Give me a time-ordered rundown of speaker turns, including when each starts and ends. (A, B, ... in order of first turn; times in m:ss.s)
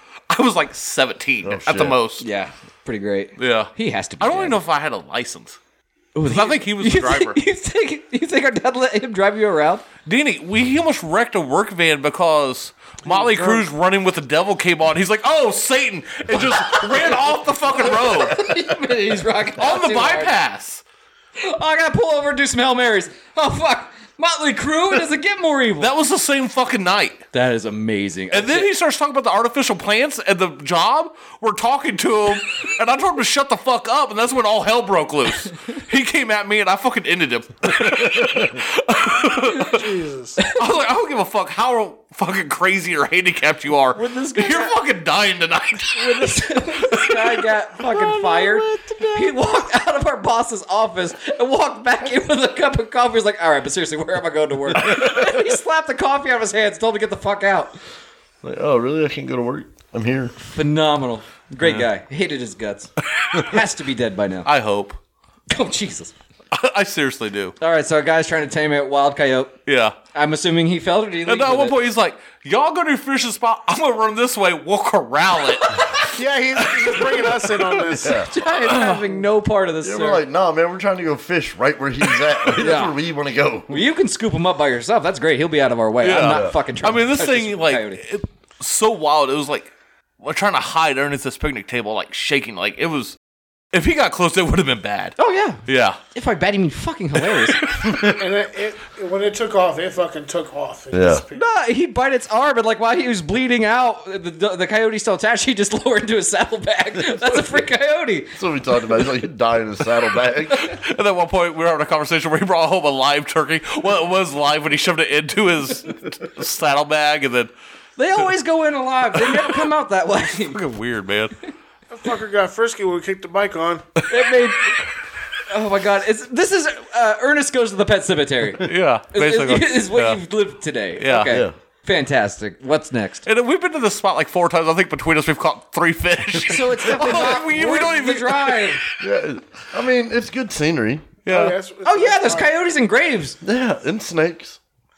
0:00.3-0:02.2 A
0:01.4-0:02.0 B
0:02.2-0:04.6 C
0:03.4-0:05.6 A
0:06.2-0:09.9 C
0:06.3-0:07.4 A
0:10.1-0:18.4 A
0:16.3-0:17.2 C
0:17.8-0:20.4 C
0:19.6-0:20.8 A
0:21.4-0:25.9 C
0:25.8-0:27.2 A
0:27.3-0:28.7 C
0:28.3-0:39.9 A
0:37.7-0:38.6 B
0:39.6-0:40.4 D
0:40.5-0:49.4 A
0:44.0-0:44.8 C
0:46.0-0:57.8 C
0:54.8-0:55.4 B
0:58.4-1:00.3 B
1:00.4-1:04.5 C
1:01.6-1:01.9 A
1:04.5-1:05.0 A
1:05.5-1:06.1 C
1:06.5-1:07.6 A
1:07.6-1:09.6 C
1:09.7-1:10.0 A
1:10.1-1:11.8 C
1:11.3-1:15.8 A
1:15.6-1:16.1 C
1:16.1-1:18.3 D
1:16.6-1:18.0 A
1:17.9-1:18.3 B
1:18.2-1:20.2 C
1:18.6-1:19.2 A
1:19.8-1:23.8 B
1:22.5-1:23.0 C
1:23.7-1:28.0 C
1:26.0-1:33.2 A
1:26.2-1:26.6 B
1:33.7-1:36.0 A
1:35.2-1:35.6 C
1:36.1-1:37.7 C
1:37.3-1:37.9 A
1:37.8-1:38.2 B
1:38.1-1:41.4 D
1:40.9-1:41.2 B
1:41.3-1:48.4 C
1:47.0-1:47.6 B
1:48.4-1:50.7 B
1:50.6-1:57.5 A
1:58.0-2:00.6 C
1:59.2-1:59.6 A
2:00.4-2:01.4 A
2:01.9-2:03.9 D
2:04.1-2:04.8 C
2:05.5-2:13.3 C
2:08.6-2:10.2 A
2:11.0-2:11.4 A
2:11.3-2:11.5 B
2:13.3-2:18.9 A
2:16.4-2:18.8 C
2:19.0-2:21.1 B
2:21.2-2:21.6 A
2:21.3-2:22.5 D
2:21.8-2:23.4 C
2:23.4-2:24.6 B